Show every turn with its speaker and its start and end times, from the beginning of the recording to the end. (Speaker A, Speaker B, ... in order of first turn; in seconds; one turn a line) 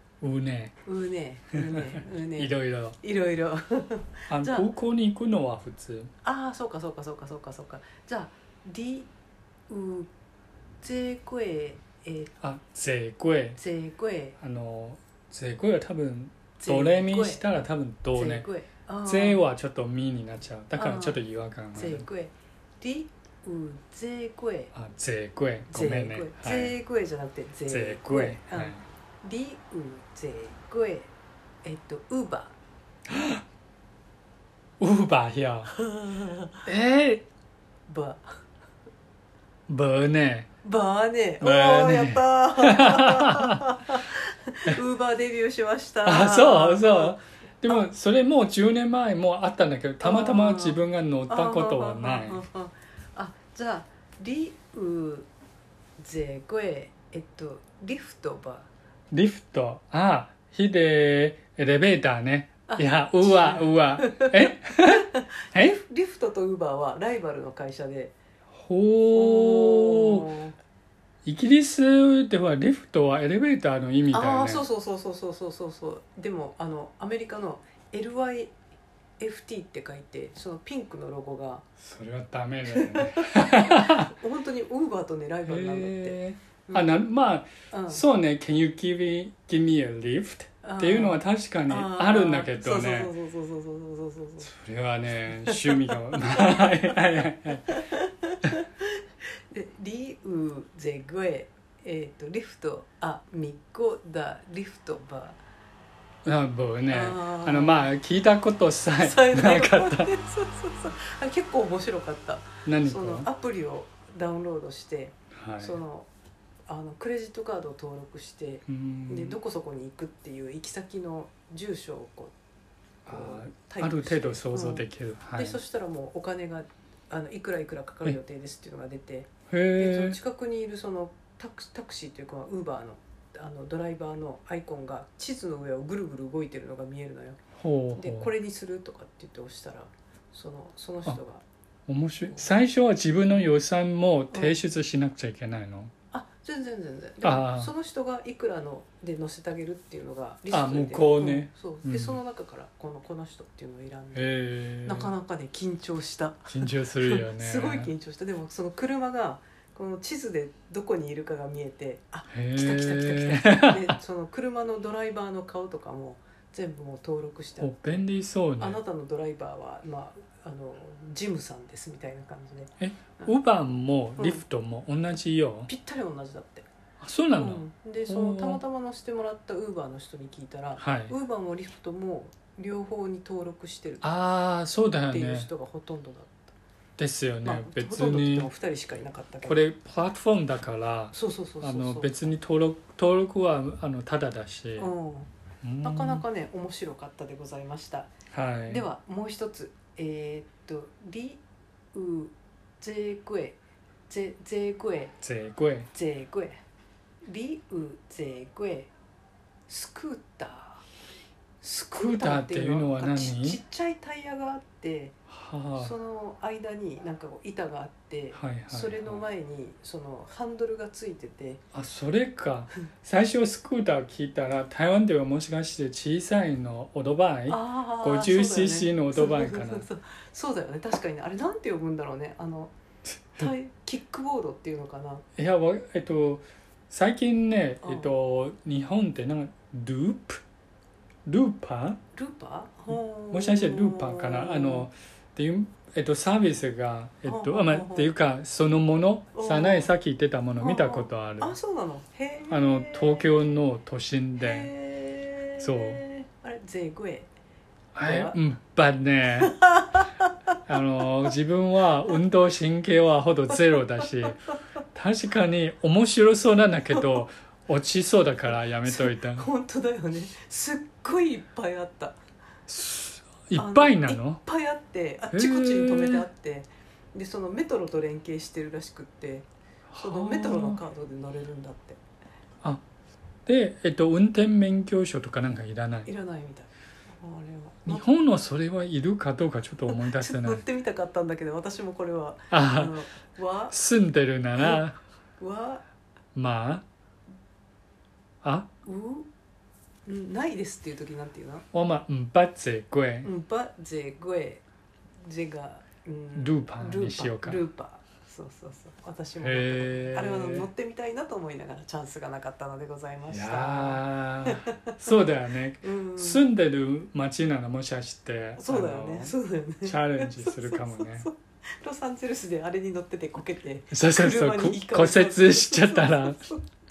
Speaker A: 0.2-0.7
Speaker B: 0.8-4.7
Speaker A: 1.5-3.0
Speaker A: 4.3-6.1
Speaker B: 6.2-9.1
Speaker B: 9.7-10.1
Speaker B: 10.8-12.3
Speaker A: 12.4-13.6
Speaker B: 13.6-14.4
Speaker A: 14.4-18.5
Speaker B: 16.6-17.4
Speaker B: 18.1-19.4
Speaker A: 19.0-22.1
Speaker B: 20.7-21.2
Speaker B: 21.7-24.7
Speaker A: 24.7-26.7
Speaker B: 25.7-31.1
Speaker A: 27.7-28.8
Speaker B: 31.6-32.5
Speaker A: 33.1-33.4
Speaker A: 34.8-35.7
Speaker B: 35.7-36.7
Speaker A: 36.6-37.2
Speaker B: 37.9-38.4
Speaker A: 39.7-40.5
Speaker B: 40.6-47.8
Speaker A: 41.4-43.6
Speaker A: 46.0-52.4
Speaker B: 50.0-55.3
Speaker B: 56.0-58.7
Speaker A: 59.1-65.8
Speaker B: 62.7-68.1
Speaker A: 68.5-70.3
Speaker B: 69.1-70.5
Speaker A: 71.2-74.6
Speaker B: 74.1-78.5
Speaker B: 79.2-81.6
Speaker A: 81.8-84.1
Speaker B: 82.7-87.1
Speaker A: 85.4-93.1
Speaker B: 87.7-88.0
Speaker B: 90.6-94.5
Speaker A: 94.4-97.8
Speaker B: 95.3-97.0
Speaker B: 97.6-99.0
Speaker B: 99.5-105.4
Speaker A: 106.2-110.1
Speaker B: 106.9-107.9
Speaker B: 109.0-116.1
Speaker A: 112.6-113.3
Speaker A: 115.3-115.8
Speaker B: 116.7-122.3
Speaker A: 118.7-119.4
Speaker A: 123.0-125.6
Speaker B: 123.1-137.4
Speaker A: 129.5-130.2
Speaker A: 137.6-138.3
Speaker B: 137.9-141.4
Speaker A: 141.9-145.9
Speaker B: 144.3-144.5
Speaker B: 146.1-154.3
Speaker A: 147.2-147.7
Speaker A: 150.5-152.2
Speaker A: 154.1-155.1
Speaker B: 154.8-168.1
Speaker A: 156.5-157.9
Speaker A: 162.3-163.9
Speaker A: 167.6-168.8
Speaker B: 168.6-173.3
Speaker A: 172.8-175.7
Speaker B: 174.2-174.4
Speaker B: 175.7-176.7
Speaker A: 177.0-178.6
Speaker B: 177.3-184.0
Speaker A: 180.8-181.1
Speaker A: 184.0-185.5
Speaker B: 185.1-186.5
Speaker A: 187.0-188.5
Speaker B: 187.4-189.6
Speaker A: 189.4-194.9
Speaker B: 191.1-192.2
Speaker B: 194.8-195.3
Speaker A: 195.6-196.2
Speaker B: 195.8-198.1
Speaker A: 198.3-198.8
Speaker B: 198.7-201.4
Speaker B: 201.9-203.6
Speaker B: 204.1-205.2
Speaker A: 205.2-205.9
Speaker B: 205.9-206.6
Speaker B: 207.2-208.9
Speaker B: 209.7-210.8
Speaker B: 211.6-215.2
Speaker A: 211.9-213.6
Speaker A: 215.3-215.9
Speaker B: 215.8-221.6
Speaker A: 218.3-219.2
Speaker A: 221.7-229.8
Speaker B: 227.5-232.7
Speaker B: 233.3-235.2
Speaker A: 235.4-240.4
Speaker B: 237.8-238.1
Speaker A: 241.2-242.0
Speaker B: 242.1-244.9
Speaker A: 243.3-251.6
Speaker B: 247.2-248.1
Speaker B: 249.3-249.9
Speaker B: 250.6-253.5
Speaker A: 252.5-254.7
Speaker B: 254.4-257.3
Speaker A: 255.6-256.0
Speaker A: 257.9-259.6
Speaker B: 258.0-258.4
Speaker B: 259.4-260.6
Speaker A: 260.7-264.4
Speaker B: 264.0-264.3
Speaker A: 264.9-269.5
Speaker B: 268.5-272.2
Speaker A: 272.7-274.4
Speaker B: 273.6-279.4
Speaker A: 275.3-276.3
Speaker A: 279.9-280.8
Speaker B: 280.0-282.0
Speaker A: 283.4-286.1
Speaker B: 286.0-288.1
Speaker A: 287.8-290.6
Speaker B: 289.9-293.8
Speaker A: 292.5-292.9
Speaker A: 293.7-295.0
Speaker B: 294.6-294.8
Speaker B: 295.4-295.8
Speaker A: 296.3-296.8
Speaker A: 298.4-298.7
Speaker B: 298.8-299.3
Speaker B: 300.1-301.6
Speaker A: 301.7-303.3
Speaker B: 303.2-304.6
Speaker B: 305.2-314.9
Speaker A: 306.4-307.6
Speaker A: 309.4-310.7
Speaker A: 313.3-321.3
Speaker B: 315.8-316.4
Speaker B: 318.6-326.6
Speaker A: 323.9-326.4